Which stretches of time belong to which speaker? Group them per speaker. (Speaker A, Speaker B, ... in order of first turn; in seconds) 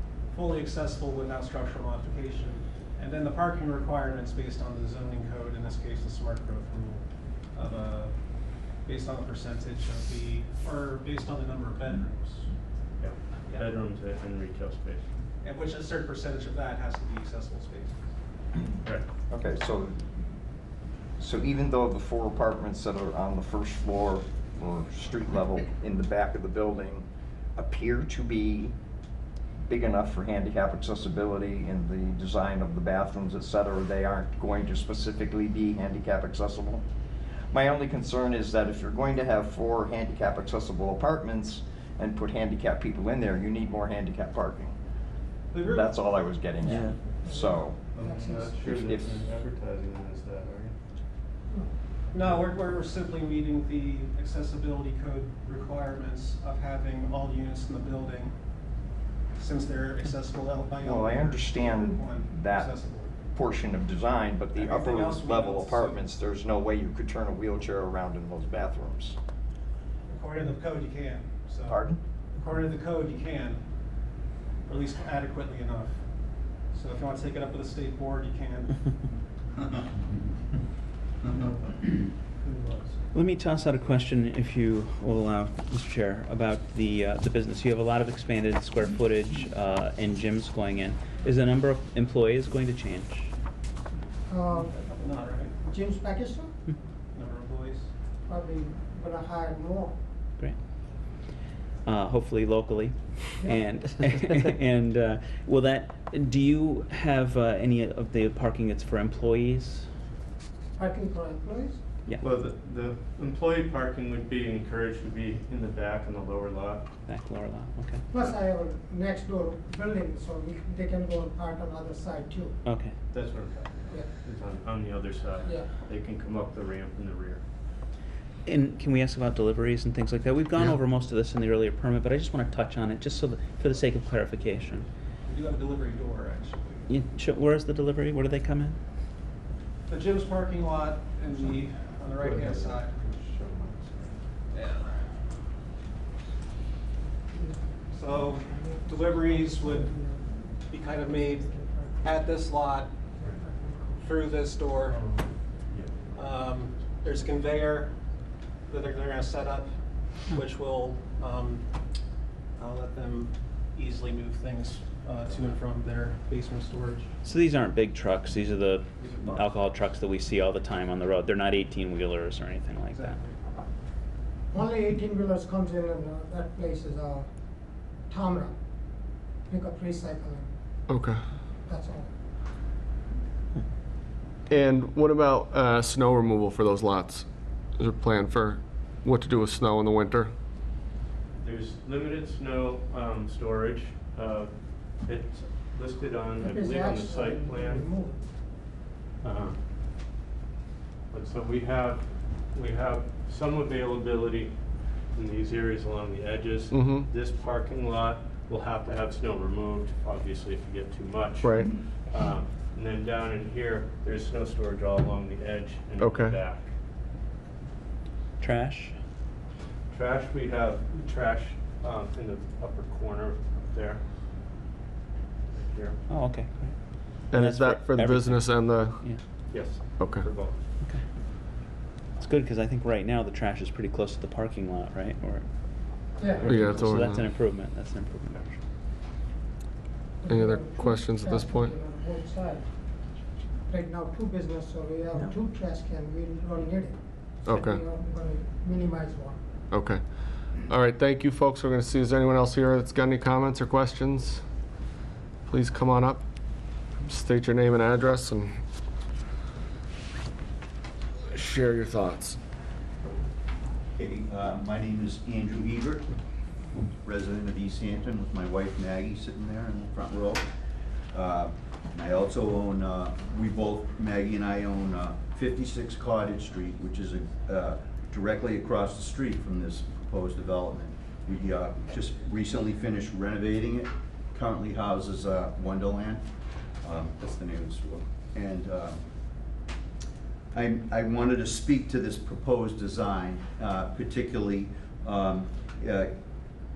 Speaker A: 0.3-8.1, 8.8-12.5, 15.4-18.0, 45.5-46.1, 52.1-58.3, 59.4-63.1, 64.5-66.0, 70.1-71.8, 72.3-73.6, 74.7-76.0, 76.6-78.8, 82.4-83.0, 94.5-95.6, 97.1-97.9, 135.2-136.9, 139.9-143.0, 144.5-145.0, 147.9-149.9, 150.7-151.5, 152.0-152.9, 154.0-155.0, 156.1-157.9, 158.7-159.8, 160.3-161.7, 162.6-167.1, 172.9-173.4
Speaker B: 13.0-15.1, 48.0-50.8, 112.2-116.9, 123.1-127.4, 142.2-144.2, 154.9-156.1, 191.4-197.9, 199.2-199.6, 201.1-204.5, 205.1-216.7, 219.9-224.0, 225.5-226.0, 229.5-230.6
Speaker C: 19.3-20.0, 21.2-28.7, 29.7-36.8, 37.5-44.8, 45.6-47.8, 48.5-49.3, 60.8-62.7, 63.3-69.2, 71.7-72.0
Speaker D: 47.2-48.6, 94.3-94.8, 95.6-96.5, 98.3-100.0, 103.4-104.0, 110.8-111.8, 118.1-122.6, 125.4-125.7, 147.3-152.3, 153.1-154.4, 174.5-177.3, 178.1-178.6, 179.5-180.5, 181.7-182.1, 196.4-198.2, 236.2-236.6, 240.2-242.7, 243.7-249.4
Speaker E: 83.1-93.3, 101.9-109.9, 117.1-118.0, 122.7-123.0, 128.5-134.8, 136.9-138.8, 167.2-173.2, 218.4-218.9, 226.1-229.2, 232.2-238.6
Speaker F: 180.9-181.2, 184.5-190.3, 206.7-207.1, 211.4-211.7, 216.0-216.4, 227.3-229.0, 230.0-230.2, 236.4-237.3, 240.3-241.8, 247.5-247.8, 249.7-254.4, 255.5-256.2, 257.0-258.6, 261.3-262.4
Speaker G: 264.0-266.1, 267.0-270.5, 271.1-286.3, 286.8-289.0, 290.5-296.2